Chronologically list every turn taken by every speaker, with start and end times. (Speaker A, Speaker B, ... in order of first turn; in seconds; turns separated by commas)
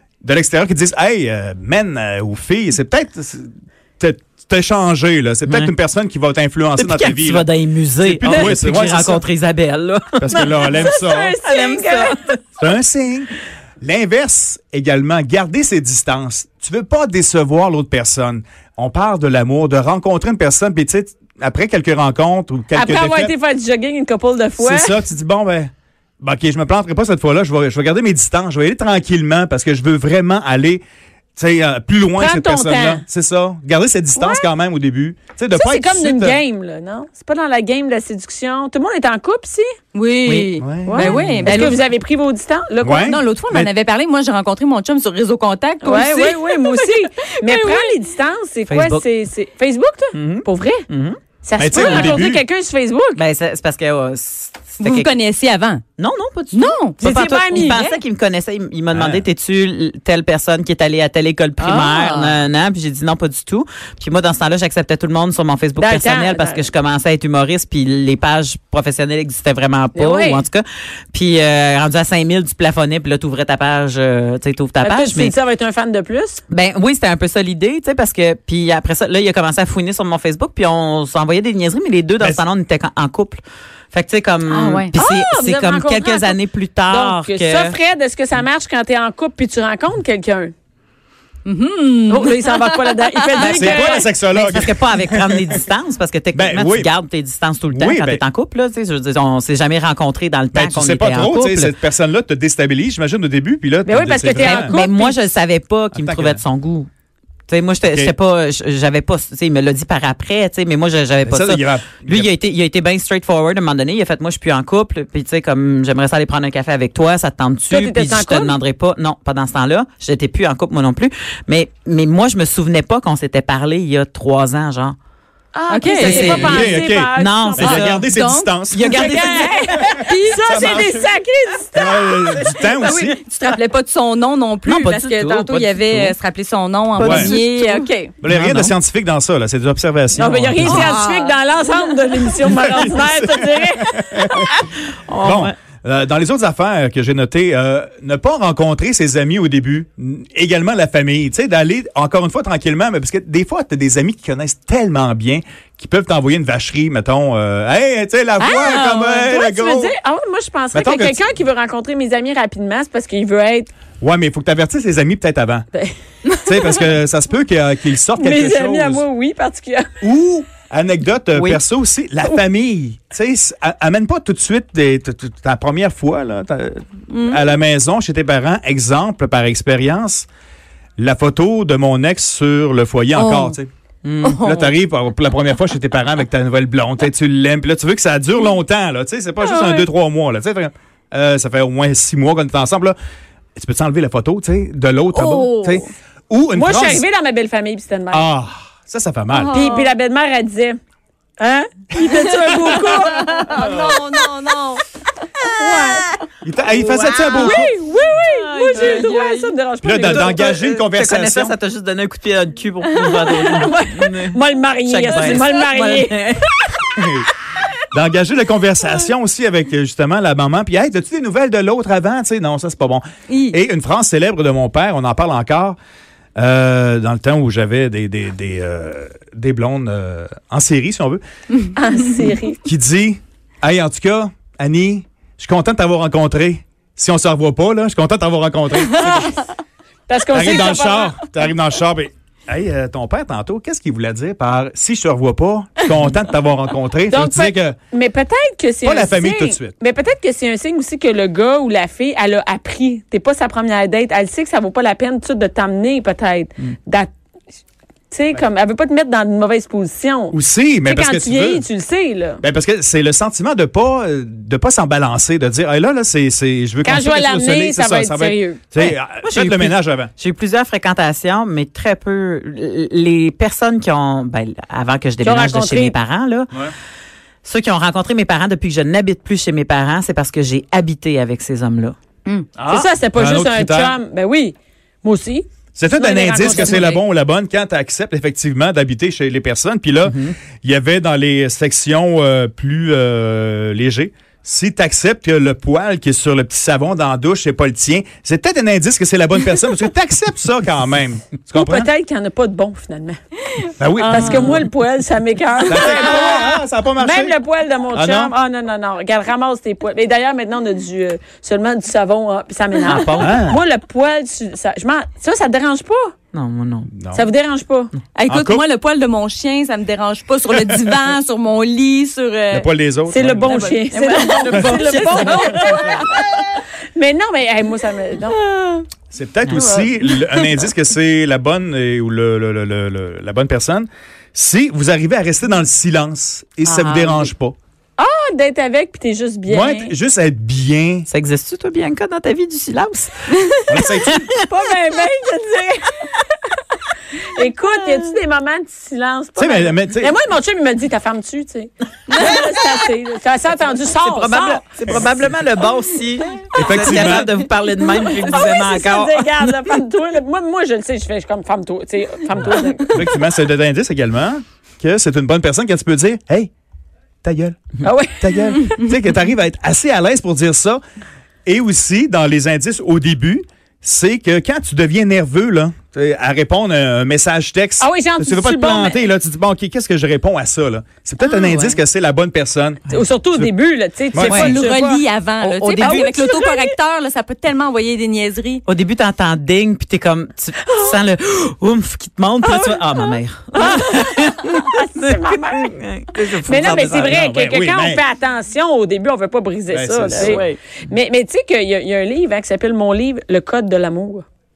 Speaker A: 0.2-7.5, Speaker B: 5.5-5.7, Speaker B: 6.8-10.9, Speaker A: 8.0-9.2, Speaker A: 10.2-11.4, Speaker C: 10.3-12.1, Speaker B: 11.4-12.4, Speaker A: 12.6-23.3, Speaker C: 22.7-25.0, Speaker A: 24.6-30.8, Speaker A: 31.4-36.4, Speaker C: 32.1-33.0, Speaker C: 34.1-34.5, Speaker C: 35.5-39.7, Speaker D: 39.9-41.8, Speaker B: 40.2-40.5, Speaker A: 40.6-41.3, Speaker C: 40.8-43.2, Speaker A: 42.8-43.7, Speaker D: 43.0-47.9, Speaker C: 45.8-50.8, Speaker B: 48.7-49.0, Speaker B: 50.1-51.2, Speaker C: 51.4-53.2, Speaker A: 51.6-52.4, Speaker D: 51.8-52.1, Speaker B: 53.1-55.1, Speaker D: 54.8-55.8, Speaker B: 56.0-75.3, Speaker D: 56.5-58.0, Speaker C: 57.0-57.8, Speaker A: 58.9-59.2, Speaker D: 61.6-62.4, Speaker C: 65.8-66.7, Speaker C: 69.9-70.4, Speaker C: 74.8-76.4, Speaker B: 76.5-83.4, Speaker B: 83.9-87.8, Speaker D: 84.5-84.9, Speaker C: 84.9-90.5, Speaker D: 91.4-92.9, Speaker C: 92.1-94.1, Speaker A: 93.4-95.6, Speaker B: 93.4-101.7, Speaker A: 96.3-96.9, Speaker A: 97.7-98.2, Speaker A: 100.5-104.7, Speaker C: 103.8-105.2, Speaker B: 104.3-106.9, Speaker A: 105.9-106.4, Speaker B: 107.5-125.0, Speaker A: 107.8-108.1, Speaker A: 111.2-112.3, Speaker C: 117.7-118.6, Speaker C: 125.5-127.8, Speaker D: 125.7-126.7, Speaker B: 126.0-128.1, Speaker A: 126.2-128.9, Speaker D: 127.8-129.2, Speaker B: 128.7-129.5, Speaker C: 128.9-132.9, Speaker D: 129.8-130.8, Speaker A: 130.4-131.1, Speaker A: 131.8-133.2, Speaker D: 132.6-138.2, Speaker B: 134.6-136.2, Speaker B: 136.9-138.7, Speaker A: 137.0-137.4, Speaker A: 138.2-141.0, Speaker C: 140.2-144.5, Speaker D: 140.6-142.4, Speaker A: 142.4-144.5, Speaker B: 144.4-145.6, Speaker A: 145.2-159.9, Speaker D: 158.4-158.8, Speaker C: 158.7-163.7, Speaker A: 160.7-161.2, Speaker A: 164.0-165.7, Speaker A: 166.4-169.0, Speaker C: 168.2-169.9, Speaker A: 170.0-180.3, Speaker B: 171.3-171.6, Speaker D: 177.1-177.4, Speaker A: 181.0-183.7, Speaker D: 183.1-183.6, Speaker B: 184.0-184.3, Speaker D: 184.2-184.8, Speaker A: 184.3-192.9, Speaker D: 189.4-189.9, Speaker A: 193.6-197.0, Speaker D: 195.1-195.9, Speaker C: 196.5-198.3, Speaker A: 198.1-199.6, Speaker D: 199.3-199.9, Speaker C: 199.5-200.8, Speaker C: 201.4-203.5, Speaker D: 202.1-204.8, Speaker C: 205.6-206.1, Speaker A: 206.4-207.7, Speaker B: 206.8-207.4, Speaker D: 207.3-207.6, Speaker C: 207.3-210.4, Speaker D: 208.2-209.5, Speaker A: 209.8-211.6, Speaker B: 210.0-216.4, Speaker C: 213.2-216.7, Speaker A: 217.0-217.3, Speaker A: 217.9-225.8, Speaker D: 223.3-223.6, Speaker A: 226.4-231.2, Speaker C: 231.8-232.6, Speaker A: 232.6-239.4, Speaker C: 238.9-239.4, Speaker C: 240.1-241.2, Speaker A: 240.3-247.8, Speaker C: 247.1-257.1, Speaker A: 248.8-249.8, Speaker C: 258.1-262.4, Speaker A: 260.3-261.6, Speaker A: 262.4-270.1, Speaker C: 266.8-268.6, Speaker B: 268.8-276.5, Speaker C: 275.2-275.9, Speaker B: 277.4-281.9, Speaker A: 282.6-283.9, Speaker C: 282.7-287.0, Speaker A: 285.8-301.9, Speaker B: 286.4-287.0, Speaker B: 290.1-290.3, Speaker C: 301.6-303.2, Speaker A: 303.8-304.6, Speaker C: 304.0-316.1, Speaker D: 304.1-304.6, Speaker A: 305.7-307.3, Speaker A: 307.9-308.3, Speaker B: 312.8-313.4, Speaker A: 313.2-313.6, Speaker B: 316.3-316.9, Speaker A: 316.9-317.2, Speaker C: 317.1-317.9, Speaker D: 318.1-322.7, Speaker A: 318.3-318.6, Speaker A: 320.5-320.9, Speaker A: 322.5-323.6, Speaker C: 323.1-326.1, Speaker D: 323.4-326.1, Speaker A: 324.5-325.8, Speaker C: 326.9-328.4, Speaker A: 329.1-337.6, Speaker D: 329.5-330.4, Speaker B: 336.7-337.3, Speaker D: 336.8-337.3, Speaker C: 338.0-339.9, Speaker A: 339.5-341.1, Speaker B: 341.1-343.3, Speaker A: 343.7-344.3, Speaker C: 344.4-346.3, Speaker C: 347.3-354.6, Speaker A: 349.4-350.1, Speaker B: 353.7-359.6, Speaker A: 354.9-355.4, Speaker A: 356.5-357.3, Speaker D: 358.0-358.5, Speaker C: 358.2-363.2, Speaker A: 362.9-366.5, Speaker A: 367.2-367.6, Speaker C: 367.8-368.8, Speaker A: 368.2-370.8, Speaker A: 371.4-383.5, Speaker C: 377.8-379.0, Speaker D: 381.2-381.8, Speaker C: 382.9-385.0, Speaker A: 384.1-385.0, Speaker B: 384.2-384.6, Speaker D: 384.3-388.6, Speaker B: 385.4-386.1, Speaker C: 385.8-386.7, Speaker B: 388.7-397.1, Speaker C: 393.6-395.8, Speaker C: 396.4-404.2, Speaker A: 396.6-398.0, Speaker A: 399.7-400.4, Speaker D: 400.2-400.6